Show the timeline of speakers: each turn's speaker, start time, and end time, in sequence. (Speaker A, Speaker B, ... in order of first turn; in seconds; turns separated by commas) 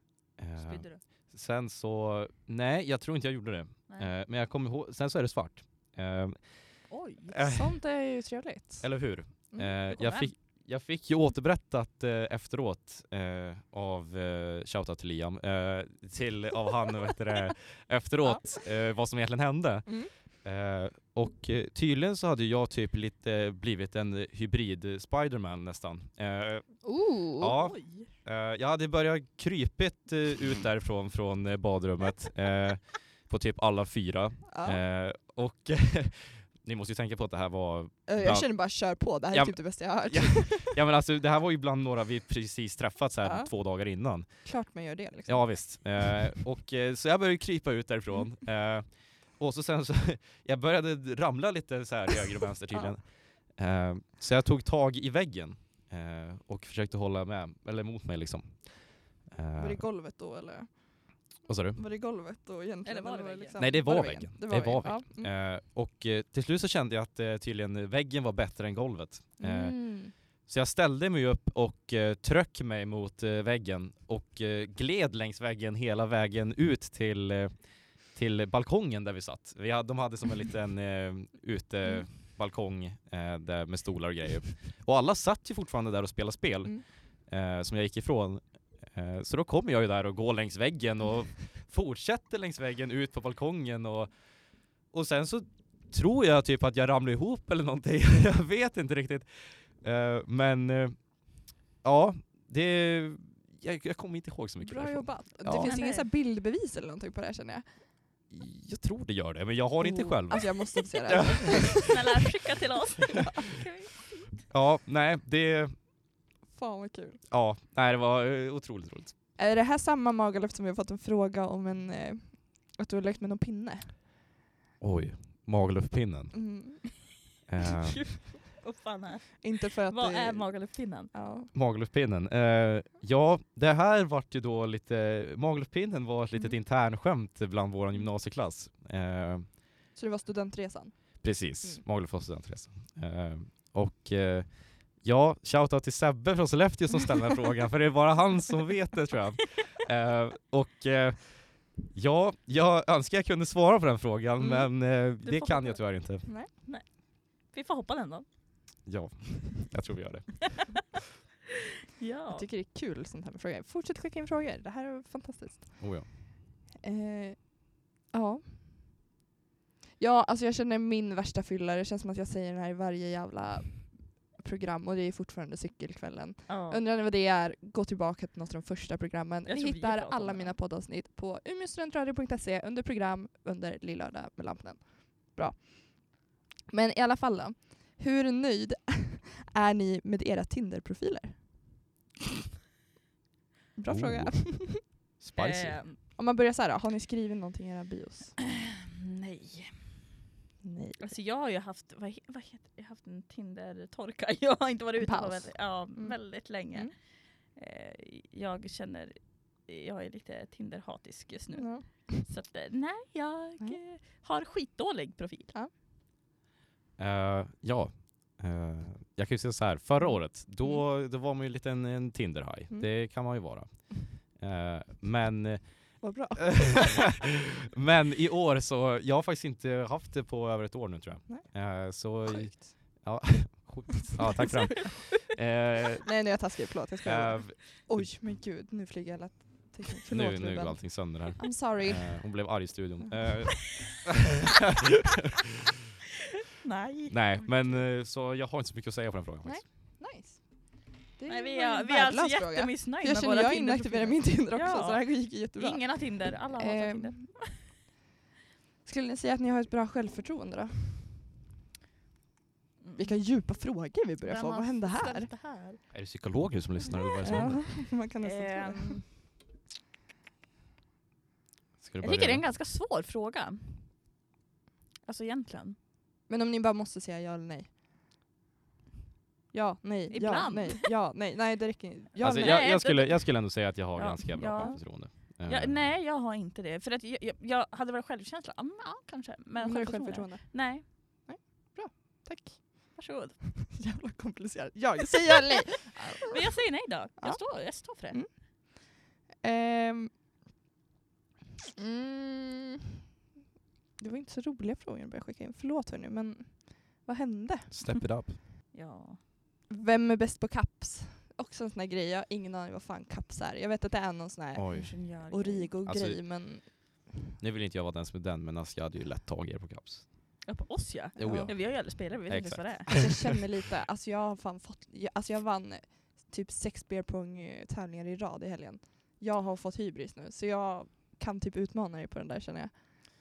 Speaker A: 0.4-7.7, Speaker B: 0.6-1.0, Speaker B: 3.9-4.1, Speaker B: 6.9-7.4, Speaker C: 7.5-9.8, Speaker A: 8.8-44.5, Speaker B: 9.9-10.3, Speaker C: 19.9-20.1, Speaker C: 26.8-27.5, Speaker B: 27.5-28.1, Speaker C: 34.5-34.8, Speaker C: 38.1-40.8, Speaker C: 43.2-43.5, Speaker C: 44.4-46.1, Speaker A: 45.2-59.8, Speaker C: 59.5-65.3, Speaker A: 61.5-61.8, Speaker B: 62.8-63.6, Speaker A: 63.6-105.8, Speaker C: 69.4-70.1, Speaker C: 104.6-107.9, Speaker B: 105.5-106.1, Speaker A: 108.3-111.9, Speaker C: 109.8-112.0, Speaker B: 111.9-114.1, Speaker A: 114.5-115.8, Speaker C: 116.5-117.2, Speaker A: 117.3-119.1, Speaker C: 119.4-123.9, Speaker A: 124.8-126.5, Speaker C: 126.3-127.1, Speaker A: 127.5-128.2, Speaker B: 128.1-131.1, Speaker C: 129.4-131.5, Speaker A: 131.5-139.6, Speaker C: 139.9-141.8, Speaker A: 141.2-156.3, Speaker C: 154.4-154.7, Speaker B: 155.2-158.3, Speaker A: 158.8-161.0, Speaker B: 162.0-162.5, Speaker C: 162.3-166.1, Speaker A: 165.8-166.1, Speaker C: 166.8-169.0, Speaker C: 170.0-191.7, Speaker B: 176.5-176.8, Speaker B: 179.4-180.6, Speaker C: 193.7-194.8, Speaker A: 193.9-195.8, Speaker B: 195.4-196.0, Speaker C: 196.0-198.4, Speaker B: 199.0-199.9, Speaker C: 200.6-201.1, Speaker B: 201.0-215.5, Speaker C: 205.0-206.9, Speaker C: 211.5-212.2, Speaker A: 217.0-236.3, Speaker C: 222.7-223.4, Speaker C: 226.0-227.1, Speaker C: 231.3-233.0, Speaker C: 233.9-235.0, Speaker C: 236.0-243.1, Speaker A: 237.0-238.1, Speaker A: 240.1-244.2, Speaker B: 246.6-247.8, Speaker A: 247.1-249.6, Speaker C: 249.4-257.4, Speaker B: 251.3-257.6, Speaker C: 258.8-261.1, Speaker B: 262.8-263.2, Speaker C: 263.0-265.3, Speaker B: 264.2-265.9, Speaker A: 265.9-267.6, Speaker B: 266.8-269.1, Speaker C: 267.2-269.1, Speaker A: 271.8-272.4, Speaker B: 272.0-273.9, Speaker B: 275.0-275.8, Speaker C: 276.3-277.7, Speaker C: 279.5-282.8, Speaker B: 280.1-280.9, Speaker A: 282.2-285.8, Speaker B: 282.2-290.8, Speaker C: 284.5-284.8, Speaker C: 289.6-293.0, Speaker B: 292.9-293.4, Speaker C: 293.6-296.4, Speaker B: 296.2-298.2, Speaker C: 297.2-300.1, Speaker C: 301.8-302.8, Speaker C: 304.0-308.0, Speaker A: 307.7-308.4, Speaker B: 308.7-309.2, Speaker C: 309.7-317.0, Speaker A: 314.5-315.0, Speaker B: 314.7-315.7, Speaker A: 315.8-316.7, Speaker A: 317.4-320.5, Speaker B: 320.4-323.0, Speaker A: 321.1-323.1, Speaker C: 321.2-321.5, Speaker C: 322.9-332.7